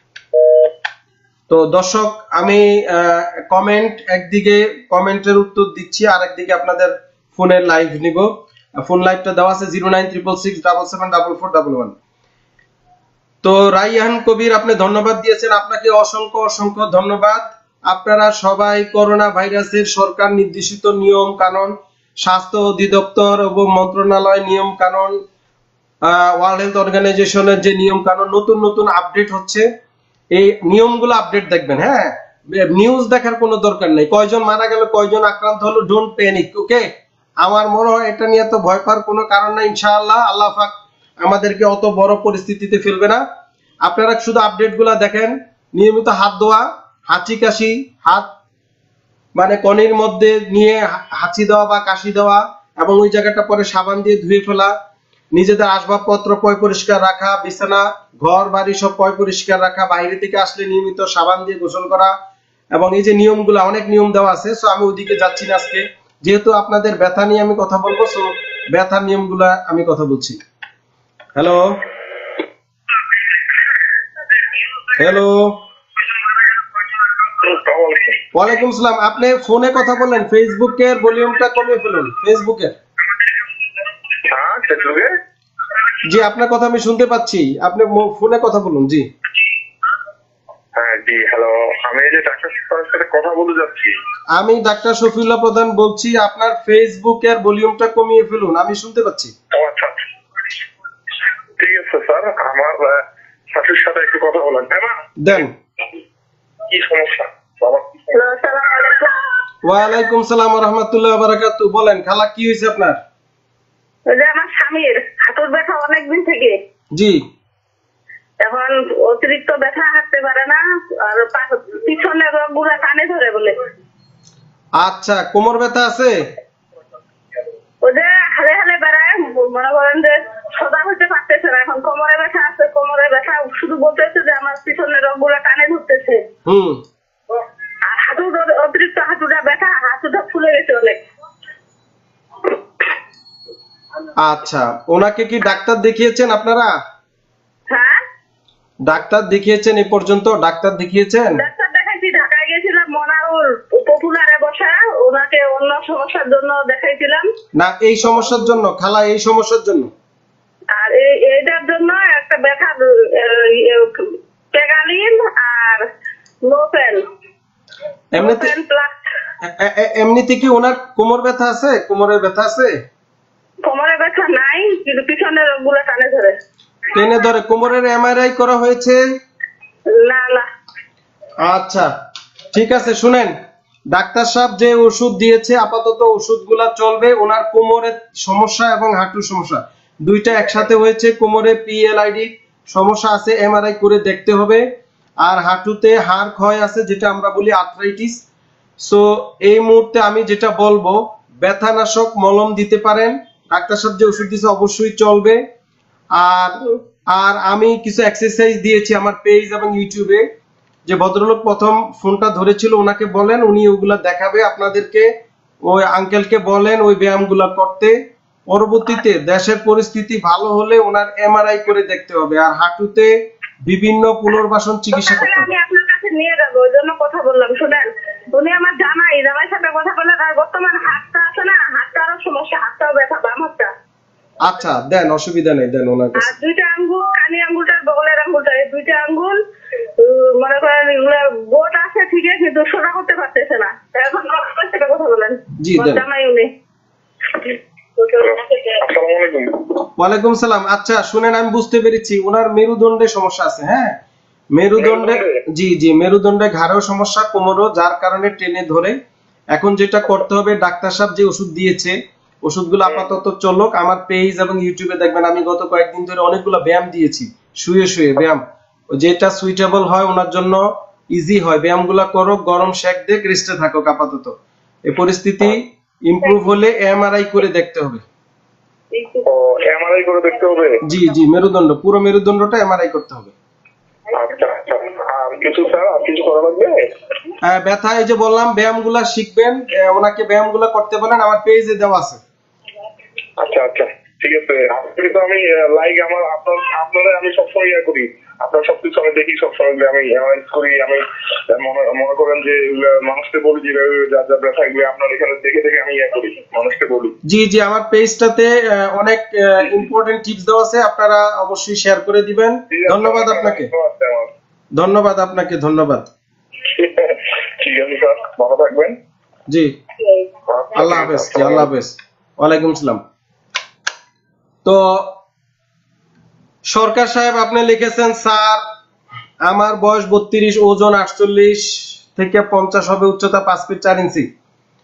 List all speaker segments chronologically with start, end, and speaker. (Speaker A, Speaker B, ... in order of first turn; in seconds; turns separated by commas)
Speaker A: 1.5-11.9, Speaker A: 13.4-25.2, Speaker A: 26.1-29.7, Speaker A: 30.4-36.9, Speaker A: 37.4-43.2, Speaker A: 43.9-48.3, Speaker A: 49.4-54.7, Speaker A: 55.3-62.1, Speaker A: 62.8-70.4, Speaker A: 71.4-71.8, Speaker A: 74.9-75.6, Speaker B: 77.3-78.2, Speaker A: 78.3-82.8, Speaker B: 84.2-85.1, Speaker A: 86.0-89.1, Speaker B: 90.8-94.0, Speaker A: 94.4-99.3, Speaker B: 99.5-100.0, Speaker B: 101.6-105.1, Speaker A: 105.2-105.5, Speaker B: 106.7-108.1, Speaker C: 108.1-109.2, Speaker A: 109.6-113.0, Speaker C: 114.1-116.6, Speaker A: 116.9-117.2, Speaker C: 118.4-123.6, Speaker A: 124.8-126.2, Speaker C: 127.8-136.2, Speaker A: 136.5-136.8, Speaker C: 137.8-141.0, Speaker A: 144.2-146.7, Speaker C: 147.7-148.0, Speaker A: 148.9-151.4, Speaker C: 151.3-157.3, Speaker A: 157.6-159.9, Speaker C: 160.7-165.9, Speaker C: 166.4-167.0, Speaker A: 168.2-168.5, Speaker C: 168.2-169.0, Speaker A: 169.4-172.8, Speaker C: 173.7-176.4, Speaker A: 176.9-179.0, Speaker C: 179.9-180.5, Speaker A: 181.4-181.9, Speaker A: 182.5-183.3, Speaker A: 183.9-194.6, Speaker A: 195.2-198.2, Speaker A: 198.8-205.4, Speaker A: 206.2-206.6, Speaker A: 207.1-210.2, Speaker A: 210.9-215.1, Speaker A: 215.7-217.9, Speaker A: 218.5-223.1, Speaker A: 223.7-225.5, Speaker C: 224.9-233.7, Speaker A: 234.4-236.3, Speaker C: 236.2-239.4, Speaker C: 240.0-246.5, Speaker A: 245.6-246.0, Speaker C: 247.4-248.8, Speaker B: 248.2-249.9, Speaker A: 250.0-254.0, Speaker A: 254.6-259.0, Speaker B: 254.8-255.4, Speaker A: 259.6-268.4, Speaker A: 268.9-270.6, Speaker A: 271.1-274.4, Speaker A: 274.9-278.0, Speaker B: 279.3-280.8, Speaker A: 280.8-283.3, Speaker B: 284.1-286.9, Speaker A: 287.4-292.2, Speaker B: 293.4-307.1, Speaker A: 307.3-313.7, Speaker B: 312.7-314.3, Speaker A: 314.8-316.1, Speaker B: 316.6-319.0, Speaker A: 319.5-319.8, Speaker B: 320.5-321.7, Speaker A: 320.7-323.0, Speaker A: 324.6-325.2, Speaker A: 326.7-328.6, Speaker A: 329.4-334.3